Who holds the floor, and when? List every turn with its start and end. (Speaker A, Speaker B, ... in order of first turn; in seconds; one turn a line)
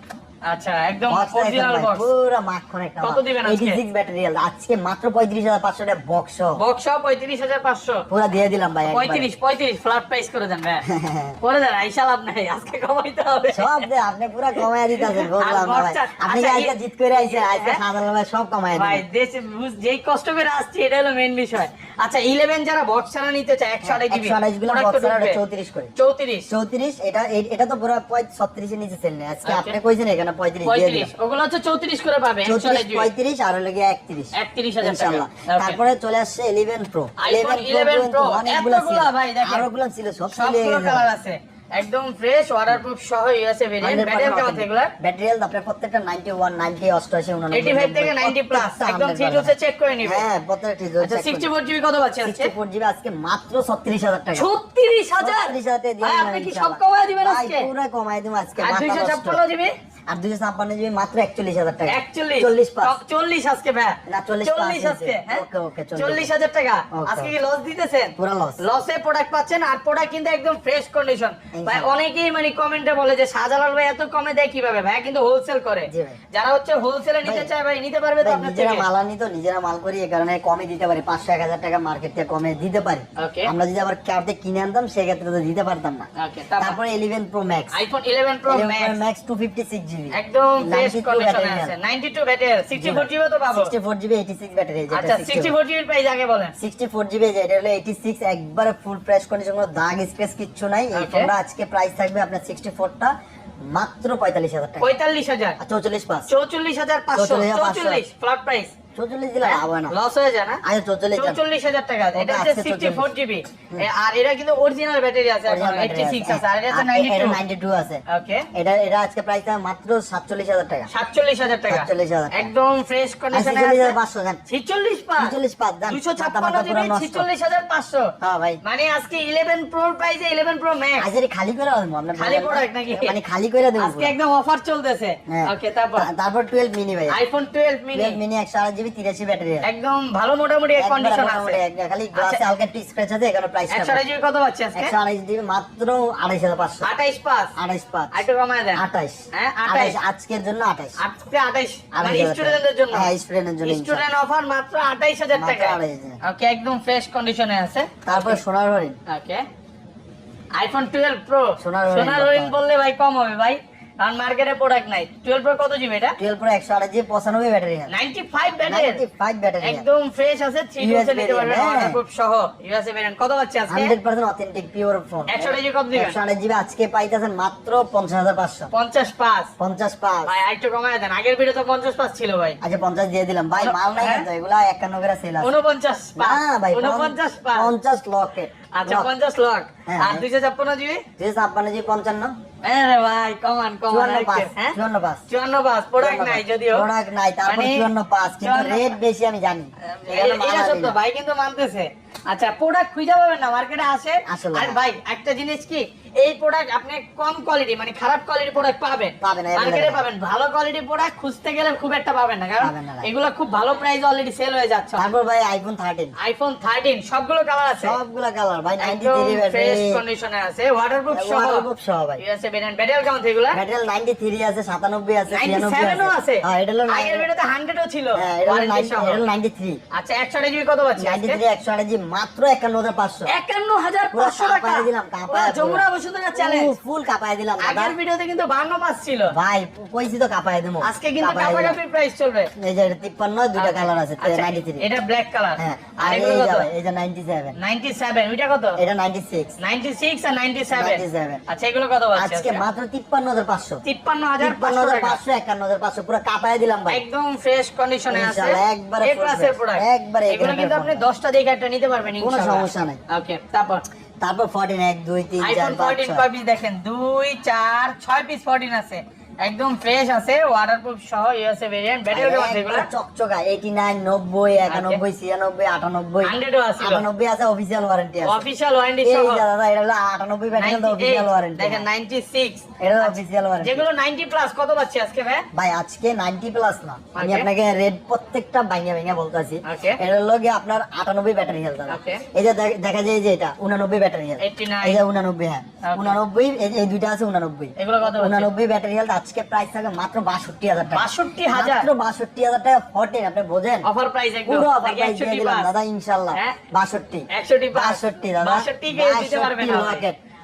Speaker A: 0.5-2.1
Speaker B: 1.1-6.6
Speaker A: 3.0-3.8
Speaker A: 6.6-8.1
Speaker B: 8.1-9.3
Speaker A: 8.9-10.8
Speaker B: 10.9-11.4
Speaker A: 11.4-13.9
Speaker B: 13.5-19.0
Speaker A: 14.5-17.8
Speaker A: 18.7-25.4
Speaker B: 23.8-25.9
Speaker A: 26.0-26.4
Speaker B: 26.5-31.1
Speaker A: 29.4-29.8
Speaker A: 30.6-33.1
Speaker B: 32.4-41.1
Speaker A: 34.3-35.8
Speaker A: 37.2-39.7
Speaker A: 40.3-44.9
Speaker B: 43.8-51.5
Speaker A: 47.5-50.2
Speaker A: 51.0-52.5
Speaker B: 52.2-54.5
Speaker A: 54.3-57.7
Speaker B: 55.2-59.4
Speaker A: 58.6-59.7
Speaker B: 60.1-63.0
Speaker A: 61.9-65.4
Speaker B: 64.1-66.3
Speaker A: 66.0-78.8
Speaker B: 66.9-67.3
Speaker B: 68.2-68.6
Speaker B: 71.5-71.9
Speaker B: 75.9-76.2
Speaker B: 77.2-77.5
Speaker B: 78.2-86.1
Speaker A: 83.2-83.5
Speaker A: 86.2-86.8
Speaker B: 86.6-87.7
Speaker A: 87.7-89.0
Speaker B: 88.5-91.7
Speaker A: 90.1-93.7
Speaker B: 92.8-95.5
Speaker A: 94.9-96.5
Speaker B: 96.6-104.9
Speaker A: 100.9-101.3
Speaker A: 104.8-105.6
Speaker B: 105.6-106.3
Speaker A: 106.3-108.7
Speaker B: 107.1-108.0
Speaker B: 109.0-109.9
Speaker A: 109.4-110.6
Speaker B: 110.6-111.4
Speaker A: 111.1-117.4
Speaker B: 112.1-113.1
Speaker B: 115.5-118.0
Speaker A: 118.1-118.5
Speaker B: 118.5-120.9
Speaker A: 120.9-124.0
Speaker B: 121.7-122.5
Speaker B: 123.3-124.4
Speaker A: 124.5-125.3
Speaker B: 125.2-127.3
Speaker A: 125.8-131.1
Speaker B: 128.2-128.6
Speaker B: 131.0-134.1
Speaker A: 132.1-133.2
Speaker A: 133.8-136.1
Speaker B: 135.3-137.2
Speaker A: 137.1-138.2
Speaker B: 137.9-139.7
Speaker A: 139.6-141.6
Speaker B: 140.8-144.0
Speaker A: 142.1-142.4
Speaker A: 143.7-144.9
Speaker B: 144.7-146.9
Speaker A: 146.8-147.5
Speaker B: 147.6-148.2
Speaker A: 148.1-148.8
Speaker B: 148.7-151.0
Speaker A: 149.3-150.0
Speaker A: 151.0-153.1
Speaker B: 151.9-154.1
Speaker A: 153.6-158.4
Speaker B: 155.3-156.2
Speaker B: 158.0-159.0
Speaker A: 159.1-159.4
Speaker A: 160.6-166.2
Speaker B: 161.6-162.6
Speaker B: 166.2-167.9
Speaker A: 167.9-169.0
Speaker B: 168.6-169.8
Speaker A: 169.6-173.9
Speaker B: 170.8-172.0
Speaker B: 173.7-178.7
Speaker A: 175.3-176.2
Speaker A: 178.7-179.5
Speaker B: 179.6-180.3
Speaker A: 180.3-182.6
Speaker B: 182.6-185.6
Speaker A: 183.6-184.3
Speaker A: 185.4-187.7
Speaker B: 186.2-189.1
Speaker A: 188.7-191.0
Speaker B: 189.8-190.2
Speaker B: 191.2-192.3
Speaker A: 192.6-194.8
Speaker B: 193.9-195.2
Speaker A: 195.3-196.9
Speaker B: 196.0-201.0
Speaker A: 197.4-198.9
Speaker A: 199.8-215.0
Speaker B: 204.2-204.8
Speaker B: 209.2-210.0
Speaker B: 212.6-213.1
Speaker B: 215.0-216.1
Speaker A: 216.2-218.0
Speaker B: 217.8-220.0
Speaker A: 218.8-221.7
Speaker B: 221.1-222.2
Speaker A: 222.2-223.6
Speaker B: 223.5-227.3
Speaker A: 225.3-229.2
Speaker B: 228.2-229.8
Speaker A: 229.9-231.4
Speaker B: 231.0-233.3
Speaker A: 233.3-236.7
Speaker B: 234.1-237.9
Speaker A: 237.6-239.3
Speaker B: 239.3-241.8
Speaker A: 240.8-242.5
Speaker B: 242.6-244.9
Speaker A: 243.5-246.7
Speaker B: 245.6-247.5
Speaker A: 247.6-248.8
Speaker B: 248.8-249.5
Speaker A: 249.6-252.6
Speaker B: 250.7-251.4
Speaker B: 252.1-253.8
Speaker A: 253.8-255.2
Speaker B: 254.4-257.0
Speaker A: 256.9-263.8
Speaker B: 258.1-261.1
Speaker B: 262.1-263.0
Speaker B: 264.2-266.2
Speaker A: 265.4-272.9
Speaker B: 272.1-278.4
Speaker A: 274.7-275.0
Speaker A: 276.2-277.0
Speaker A: 278.2-279.4
Speaker B: 279.0-281.8
Speaker A: 280.6-285.4
Speaker B: 282.8-283.9
Speaker B: 285.5-303.9
Speaker A: 287.1-287.5
Speaker A: 289.6-290.0
Speaker A: 291.9-292.2
Speaker A: 294.4-295.0
Speaker A: 295.8-296.2
Speaker A: 297.8-298.5
Speaker A: 300.9-301.9
Speaker A: 303.9-305.7
Speaker B: 304.4-310.2
Speaker A: 307.3-310.0